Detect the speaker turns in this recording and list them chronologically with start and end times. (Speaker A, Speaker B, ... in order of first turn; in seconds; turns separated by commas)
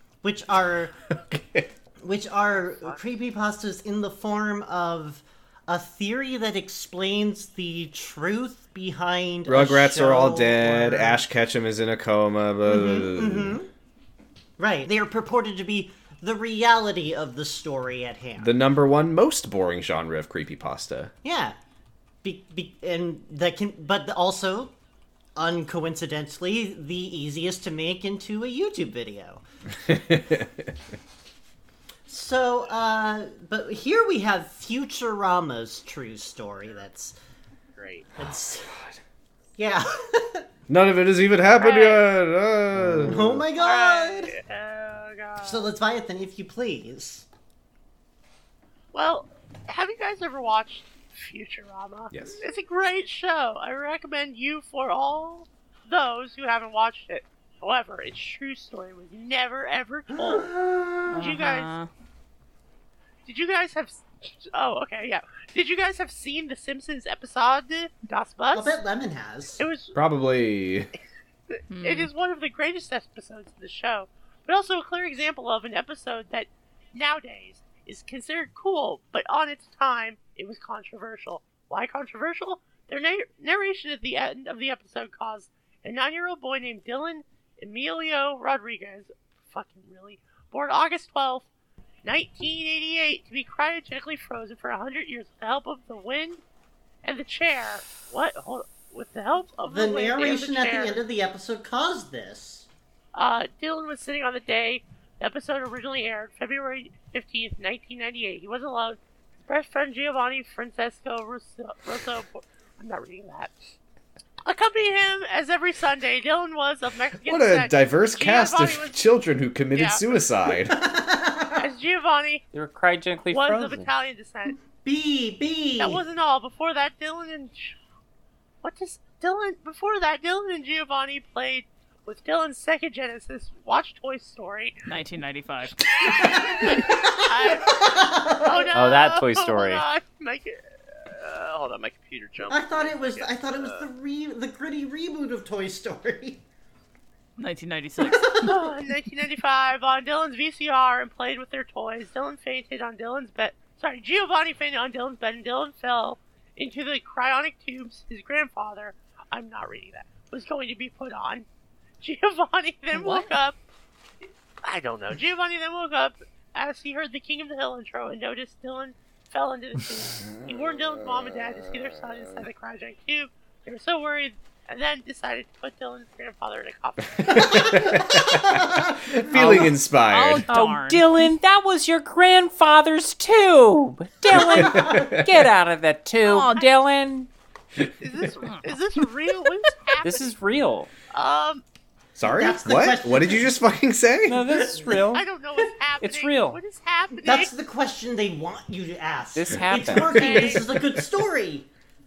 Speaker A: 0.2-0.9, Speaker B: 1.2-1.7, Speaker A: 2.0-11.2, Speaker B: 9.5-13.6, Speaker A: 12.6-13.7, Speaker A: 14.6-18.5, Speaker B: 18.4-21.1, Speaker A: 21.2-21.6, Speaker A: 22.2-24.7, Speaker A: 25.4-29.4, Speaker B: 29.9-30.7, Speaker A: 32.1-37.2, Speaker C: 37.8-38.1, Speaker A: 38.2-38.7, Speaker B: 38.2-39.0, Speaker A: 39.6-40.5, Speaker B: 40.7-43.3, Speaker D: 41.5-42.0, Speaker A: 43.0-44.4, Speaker D: 43.5-45.7, Speaker A: 45.4-47.2, Speaker D: 48.9-60.5, Speaker B: 52.1-52.4, Speaker A: 60.1-61.2, Speaker E: 61.1-61.9, Speaker D: 61.1-61.7, Speaker D: 63.2-68.8, Speaker A: 68.5-69.6, Speaker D: 69.6-70.0, Speaker B: 69.9-70.9, Speaker E: 71.7-72.1, Speaker D: 71.8-91.5, Speaker D: 92.0-96.4, Speaker D: 97.0-101.0, Speaker A: 99.7-102.7, Speaker D: 103.1-113.6, Speaker D: 114.4-119.0, Speaker B: 117.2-120.7, Speaker D: 119.7-120.1, Speaker A: 120.7-121.7, Speaker D: 121.6-122.4, Speaker F: 122.5-123.9, Speaker D: 123.3-124.5, Speaker A: 124.7-126.0, Speaker D: 125.8-127.8, Speaker D: 128.6-134.8, Speaker E: 134.9-135.8, Speaker D: 136.0-140.5, Speaker A: 136.1-138.6, Speaker F: 138.7-139.8, Speaker C: 141.0-143.9, Speaker A: 142.5-146.4, Speaker E: 147.4-148.7, Speaker D: 148.3-161.4, Speaker D: 162.0-163.6, Speaker E: 162.9-163.3, Speaker D: 164.6-177.8, Speaker B: 177.2-180.4, Speaker A: 177.3-179.7, Speaker E: 180.1-181.1, Speaker F: 180.5-187.3, Speaker B: 184.3-185.4, Speaker A: 184.6-185.1, Speaker E: 186.2-186.6, Speaker D: 188.0-190.3, Speaker F: 190.0-190.9, Speaker D: 191.1-191.6, Speaker B: 192.2-194.5, Speaker A: 192.2-193.6, Speaker F: 194.3-195.2, Speaker D: 195.0-197.5, Speaker F: 196.0-196.6, Speaker A: 197.2-201.7, Speaker F: 199.3-200.5, Speaker D: 200.1-200.7, Speaker B: 200.8-201.0